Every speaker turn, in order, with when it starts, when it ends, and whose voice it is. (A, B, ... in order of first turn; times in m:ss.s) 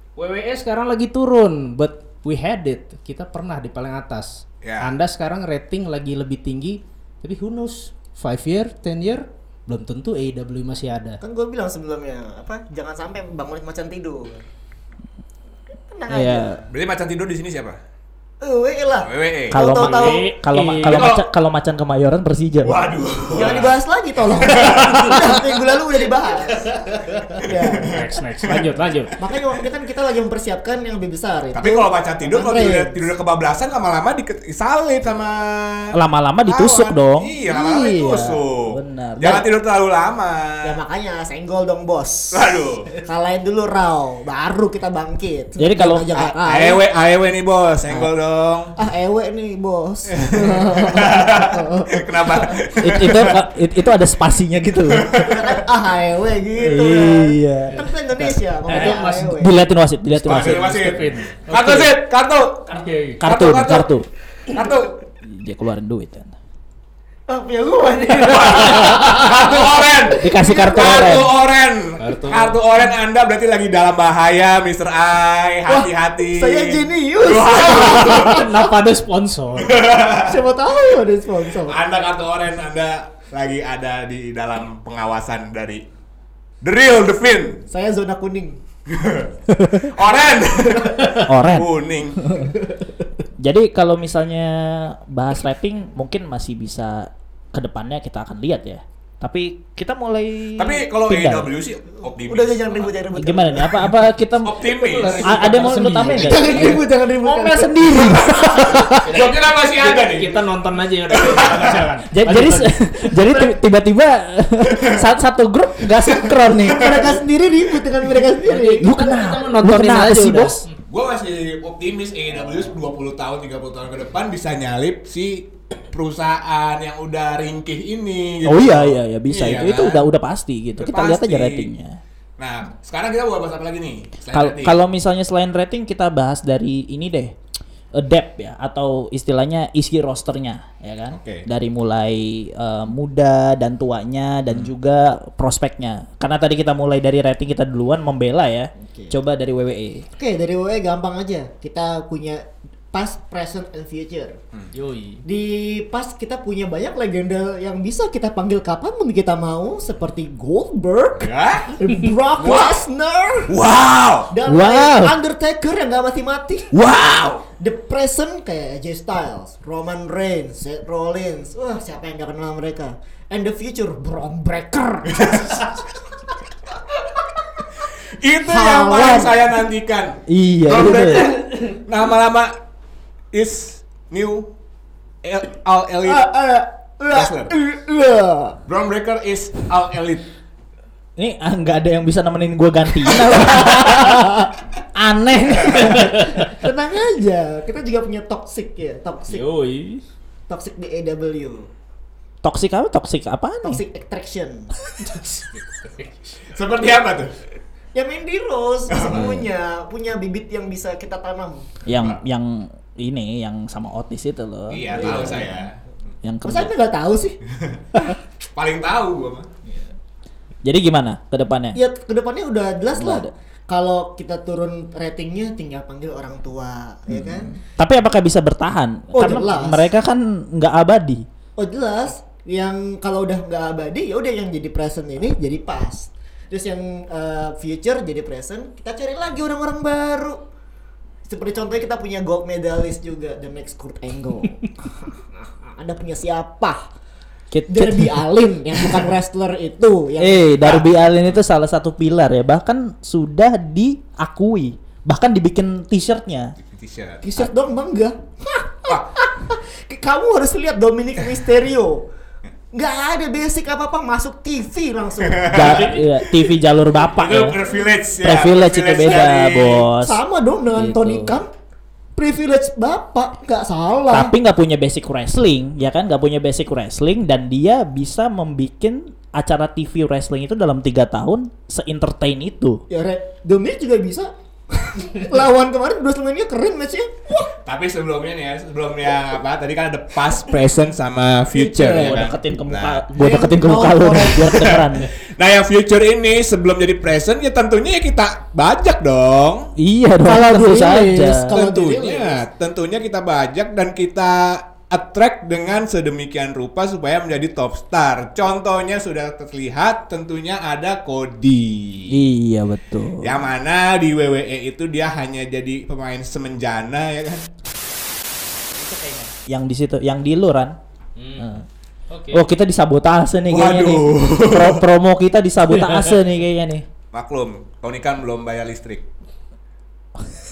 0:00.2-0:11.2 A
0:04.6-0:04.9 B
0:11.2-0:14.4 C
0:15.9-0:16.7 C
0:16.1-0:16.6 D
0:16.7-0:17.8 B
0:18.4-0:20.3 C
0:19.0-0:19.6 B
0:19.5-0:22.8 D
0:19.8-0:21.2 A
0:20.8-0:21.3 B
0:22.6-0:23.7 B
0:23.3-0:28.0 C
0:24.3-0:25.4 B
0:24.7-0:25.1 D
0:27.4-0:28.7 B
0:27.8-0:29.1 A
0:29.2-0:33.0 C
0:31.5-0:40.8 B
0:35.9-0:39.4 D
0:40.6-0:46.8 C
0:42.3-0:42.9 B
0:45.6-0:46.1 D
0:46.2-0:48.7 B
0:48.8-0:52.6 C
0:50.1-0:53.4 B
0:52.8-0:55.4 D
0:54.9-0:55.5 B
0:55.2-0:59.6 C
0:56.6-1:01.1 D
0:58.7-0:59.4 A
1:00.2-1:03.9 B
1:00.2-1:02.0 A
1:02.7-1:03.2 A
1:03.2-1:04.1 D
1:04.5-1:05.0 B
1:05.2-1:06.3 D
1:07.3-1:11.3 C
1:08.1-1:18.5 B
1:10.2-1:11.3 D
1:12.0-1:12.6 A
1:15.7-1:18.6 C
1:17.7-1:19.8 A
1:19.6-1:20.4 B
1:20.2-1:21.8 C
1:21.6-1:25.8 B
1:26.6-1:27.6 B
1:27.7-1:28.6 C
1:28.9-1:32.4 B
1:29.6-1:29.9 D
1:31.2-1:31.7 D
1:32.2-1:32.5 D
1:33.4-1:41.5 D
1:40.6-1:43.1 B
1:42.0-1:43.9 C
1:43.2-1:44.7 D
1:44.4-1:45.3 B
1:44.7-1:46.7 A
1:45.2-1:49.1 D
1:46.0-1:48.4 C
1:46.5-1:46.8 B
1:49.0-1:50.4 B
1:49.0-1:53.2 A
1:51.1-1:51.9 B
1:52.1-1:57.0 D
1:56.6-1:58.9 C
1:56.7-1:57.1 B
1:58.4-2:00.8 A
1:58.8-2:00.6 D
2:00.9-2:10.0 B
2:08.4-2:12.0 D
2:10.8-2:11.7 B
2:12.4-2:14.8 B
2:14.3-2:17.4 D
2:17.9-2:30.1 D
2:21.1-2:21.5 B
2:28.8-2:29.1 C
2:30.2-2:34.4 C
2:34.7-2:35.2 A
2:35.2-2:43.5 C
2:41.2-2:41.7 B
2:42.4-2:42.8 B
2:43.5-2:44.3 B
2:44.3-2:46.7 C
2:44.5-2:45.1 D
2:46.7-2:47.4 D
2:47.6-2:55.8 C
2:55.1-2:55.8 B
2:58.1-3:02.5 B
2:58.4-2:59.5 C
3:00.3-3:01.4 D
3:03.3-3:04.5 B
3:05.2-3:06.3 B
3:06.1-3:08.6 C
3:07.1-3:07.5 B
3:08.7-3:10.3 B
3:11.2-3:16.6 D
3:15.7-3:19.4 C
3:19.3-3:20.0 A
3:20.5-3:21.7 C
3:22.4-3:23.8 D
3:23.6-3:24.7 C
3:26.5-3:27.4 B
3:28.0-3:31.7 C
3:28.9-3:29.4 B
3:29.1-3:29.4 D
3:31.9-3:35.5 D
3:34.7-3:36.1 B
3:34.9-3:35.6 C
3:36.2-3:36.7 D
3:36.4-3:37.4 C
3:37.6-3:37.8 B
3:38.5-3:39.5 B
3:40.6-3:41.8 D
3:41.8-3:47.6 C
3:43.0-3:43.3 D
3:47.1-3:51.3 D
3:49.1-3:49.9 C
3:51.6-4:00.4 C
4:01.3-4:05.2 C
4:05.7-4:06.9 C
4:07.5-4:08.2 D
4:07.7-4:10.8 C
4:10.2-4:16.6 D
4:10.6-4:11.4 B
4:16.6-4:17.2 B
4:17.2-4:22.1 C
4:22.7-4:26.0 C
4:25.2-4:26.5 B
4:25.5-4:27.6 D
4:27.1-4:29.8 B
4:28.2-4:30.2 D
4:29.0-4:31.5 C
4:30.8-4:31.4 D
4:32.2-4:34.3 C
4:34.1-4:42.8 D
4:42.9-4:47.5 C
4:47.6-4:53.0 B
4:51.5-4:52.3 C
4:51.8-4:55.1 D
4:53.2-4:54.9 C
4:54.5-4:59.7 B
4:59.8-5:01.6 D
5:00.2-5:02.4 C
5:01.5-5:12.2 B
5:12.1-5:13.4 D
5:13.2-5:17.5 B
5:19.4-5:20.8 D
5:21.2-5:21.6 A
5:21.4-5:21.7 D
5:22.1-5:22.4 A
5:22.3-5:26.9 D
5:23.5-5:24.9 B
5:27.1-5:29.1 B